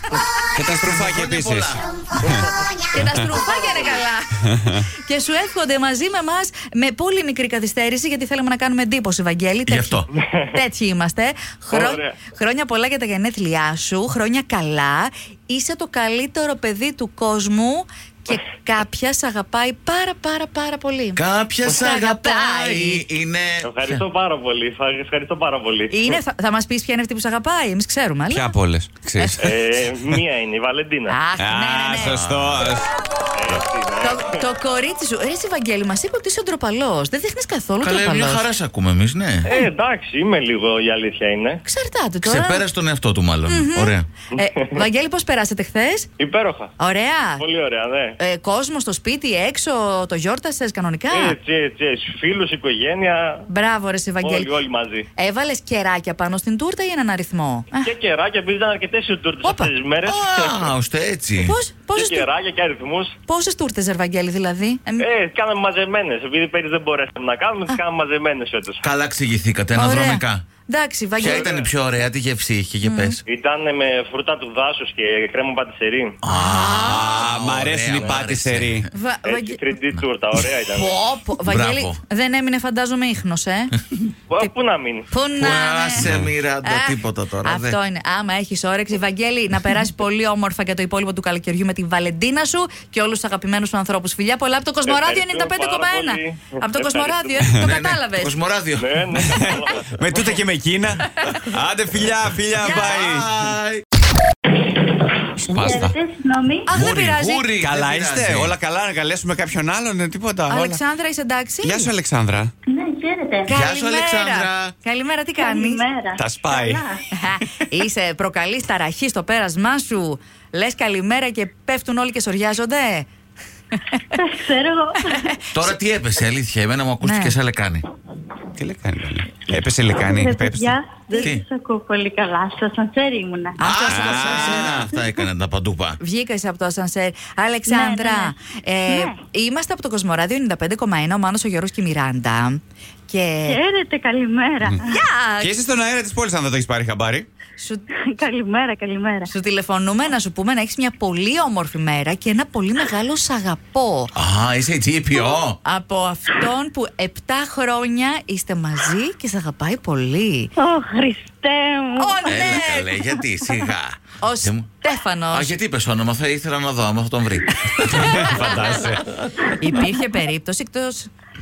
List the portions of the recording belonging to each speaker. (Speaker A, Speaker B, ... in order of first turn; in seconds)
Speaker A: 0.5-1.8, 28.3-29.5, 31.4-32.9, 76.8-78.8, 86.0-86.3, 99.2-103.3, 105.5-106.0, 107.6-110.8, 111.6-112.5, 116.2-116.8, 128.6-130.8, 133.9-134.9, 145.4-147.3, 167.8-169.1
Speaker B: 0.8-1.8, 9.7-10.1, 21.1-24.0, 32.1-32.7, 37.8-39.5, 42.2-44.1, 60.0-61.6, 68.8-70.4, 71.2-73.2, 76.2-78.9, 81.4-82.0, 85.4-87.8, 97.6-99.2, 102.6-103.8, 106.7-108.5, 113.5-114.8, 125.5-127.8, 131.2-131.4, 133.6-136.0, 154.2-155.6, 162.3-164.8, 165.3-169.2
Speaker C: 2.9-10.0, 10.5-23.0, 25.9-28.6, 31.1-32.2, 34.0-38.4, 41.6-42.6, 43.5-46.1, 46.8-47.4, 48.2-51.4, 53.5-54.5, 55.2-57.9, 59.4-59.7, 61.4-62.3, 63.3-65.1, 69.8-71.5, 72.8-73.2, 76.3-77.1, 78.9-79.6, 80.7-83.8, 85.1-86.1, 86.6-98.3, 102.6-103.0, 106.7-107.5, 110.5-111.9, 113.5-115.8, 117.1-123.1, 123.7-124.0, 127.0-127.3, 133.6-134.7, 136.0-143.6, 144.8-145.5, 147.6-147.9, 149.3-154.1, 155.6-160.5, 162.0-162.9, 164.2-165.5, 169.5-171.1
Speaker D: 3.1-4.0, 11.7-12.2, 23.6-26.2, 29.4-31.2, 33.3-34.3, 39.5-41.6, 44.3-44.8, 46.2-46.7, 47.4-48.2, 51.1-53.4, 54.2-55.0, 57.8-60.7, 61.9-63.1, 65.0-68.8, 71.2-71.7, 73.3-76.2, 79.2-81.0, 84.3-85.1, 94.9-97.4, 98.8-100.3
Speaker E: 105.5-106.7, 112.7-113.5, 115.4-117.0, 124.1-125.4, 130.0-133.7, 137.7-138.3, 138.9-139.2, 143.4-145.0, 148.1-149.3, 160.6-162.6